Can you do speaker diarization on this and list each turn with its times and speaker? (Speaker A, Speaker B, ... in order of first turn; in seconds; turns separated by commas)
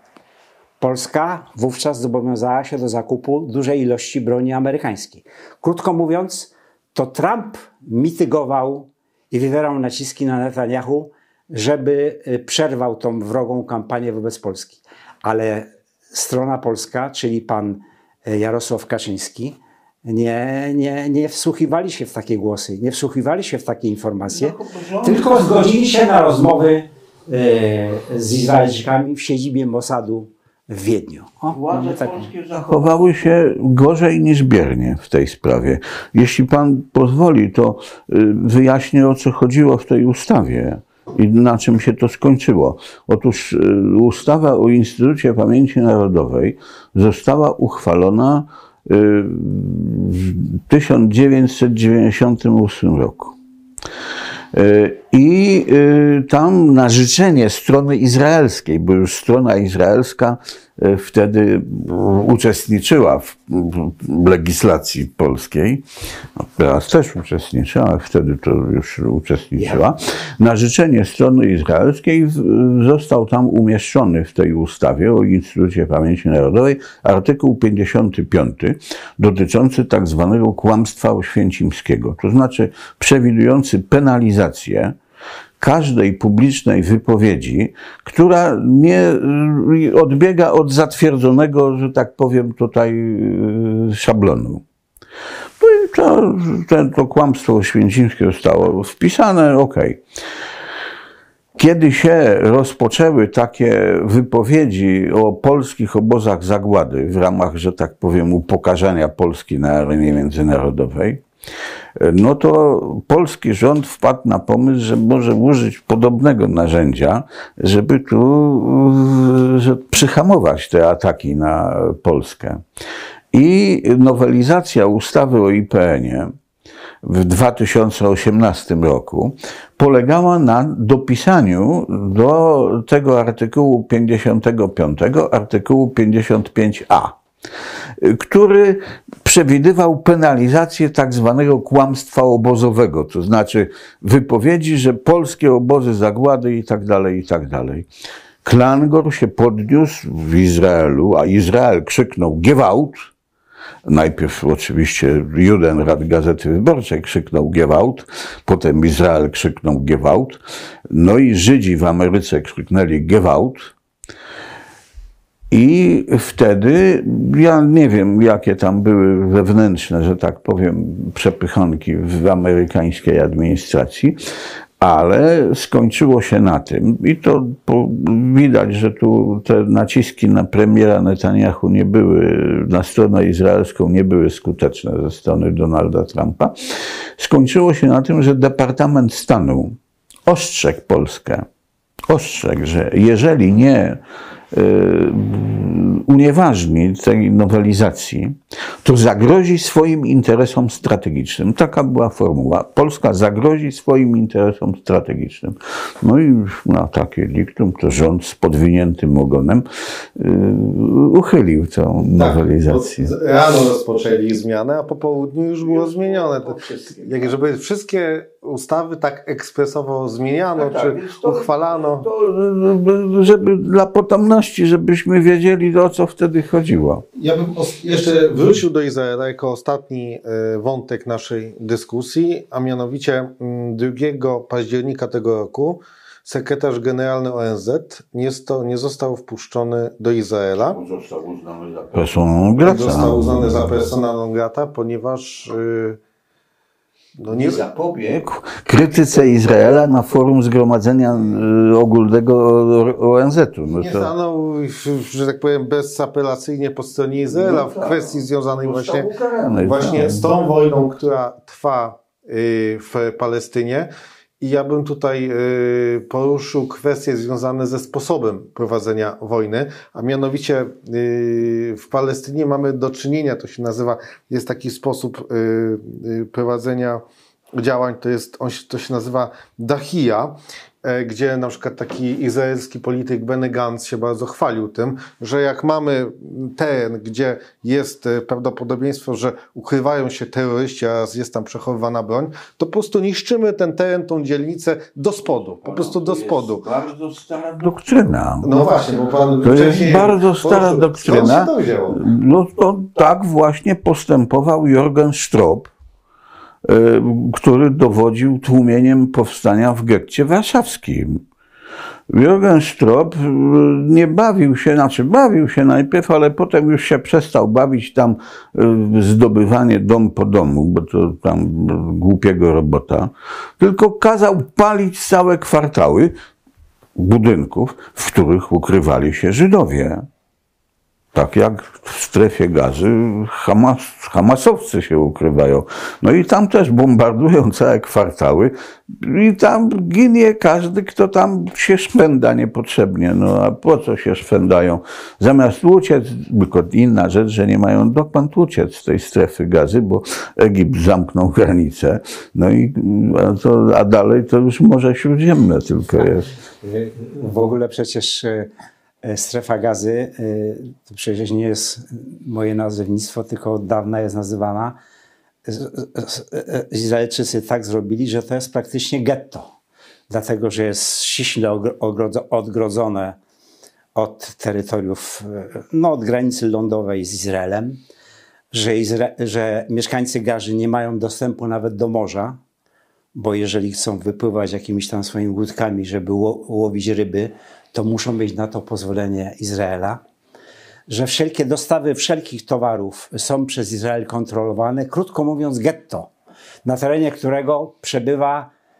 Speaker A: 0.8-32.3, Speaker B: 24.3-25.7, Speaker B: 31.5-53.4, Speaker B: 54.5-85.0, Speaker B: 85.6-94.6, Speaker B: 95.6-100.0, Speaker B: 101.5-111.2, Speaker B: 112.0-122.6, Speaker B: 123.3-126.3, Speaker B: 127.0-137.2, Speaker B: 138.0-147.9, Speaker B: 148.4-153.1, Speaker B: 153.8-163.7, Speaker B: 165.5-174.2, Speaker B: 174.8-186.5, Speaker B: 187.2-191.4, Speaker B: 192.1-194.0, Speaker B: 194.5-213.1, Speaker C: 212.2-222.1, Speaker B: 215.6-217.4, Speaker B: 220.6-227.0, Speaker C: 227.2-240.8, Speaker B: 240.6-243.8, Speaker C: 242.6-246.0, Speaker C: 247.2-247.6, Speaker B: 247.3-254.1, Speaker C: 253.8-263.9, Speaker B: 257.3-260.3, Speaker C: 264.4-277.0, Speaker C: 277.6-296.6, Speaker B: 295.6-298.6, Speaker C: 298.4-302.0, Speaker B: 299.4-305.7, Speaker B: 306.6-311.2, Speaker B: 312.1-326.1, Speaker B: 326.9-330.1, Speaker B: 331.1-356.3, Speaker A: 356.6-358.5, Speaker A: 359.0-364.8, Speaker A: 365.4-369.5, Speaker A: 370.1-373.2, Speaker A: 373.9-377.8, Speaker A: 378.5-382.4, Speaker A: 383.1-390.0, Speaker A: 390.9-396.1, Speaker A: 396.6-398.5